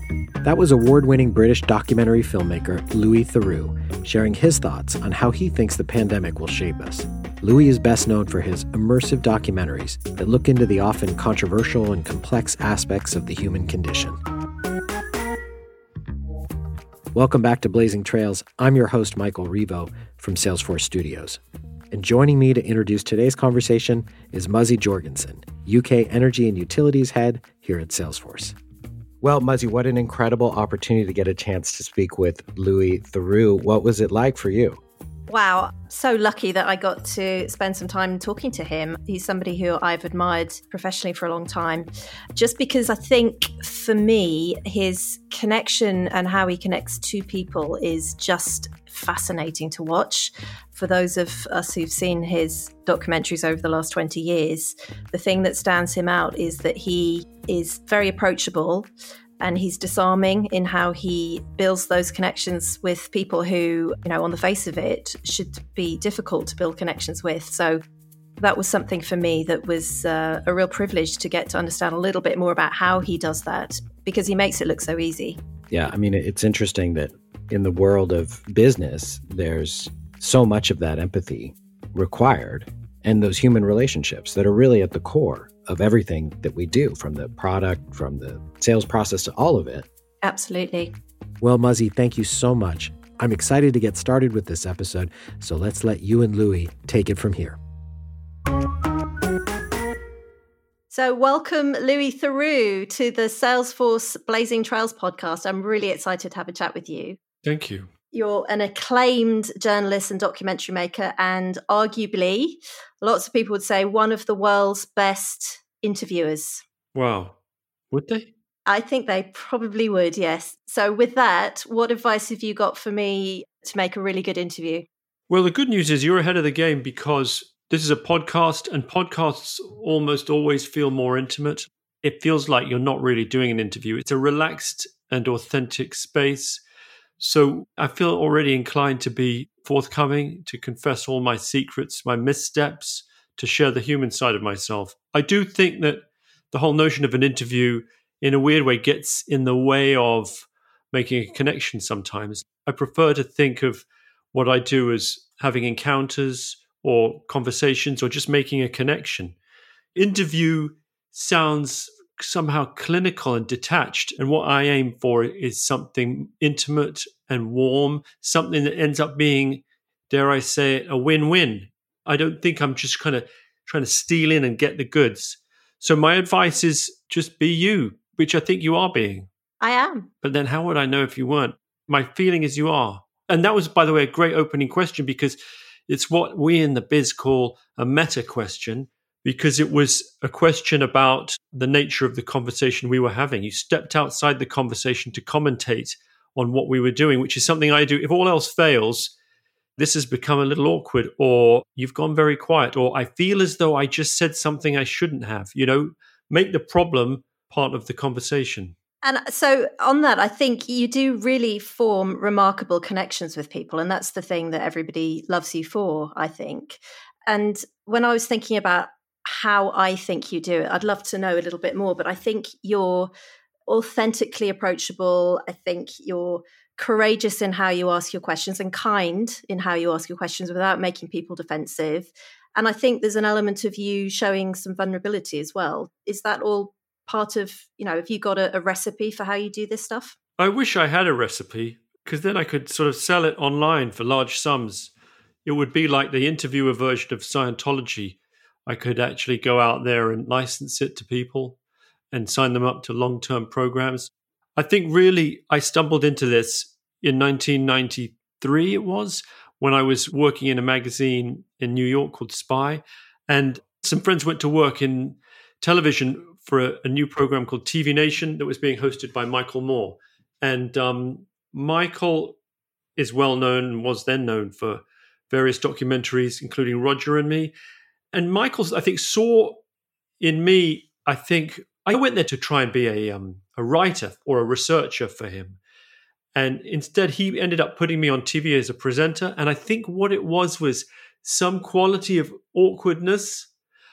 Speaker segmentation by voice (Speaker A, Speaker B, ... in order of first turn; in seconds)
Speaker A: 0.4-14.2, 17.1-21.4, 21.9-28.6, 29.2-34.8, 75.7-89.8, 91.4-97.6
Speaker B: 35.3-58.9, 59.4-67.8, 68.4-75.4, 90.2-90.9, 100.9-107.2, 108.1-116.6, 118.7-124.9, 179.6-180.1, 209.0-223.1, 223.7-240.2
Speaker C: 107.4-107.9, 116.9-117.4, 117.9-118.3, 125.3-136.6, 137.2-159.3, 159.9-179.3, 180.2-185.3, 185.9-199.1, 199.8-208.7, 240.4-244.9, 245.4-251.6, 252.1-272.4, 273.0-277.5, 278.1-279.6, 280.2-285.6, 286.3-293.5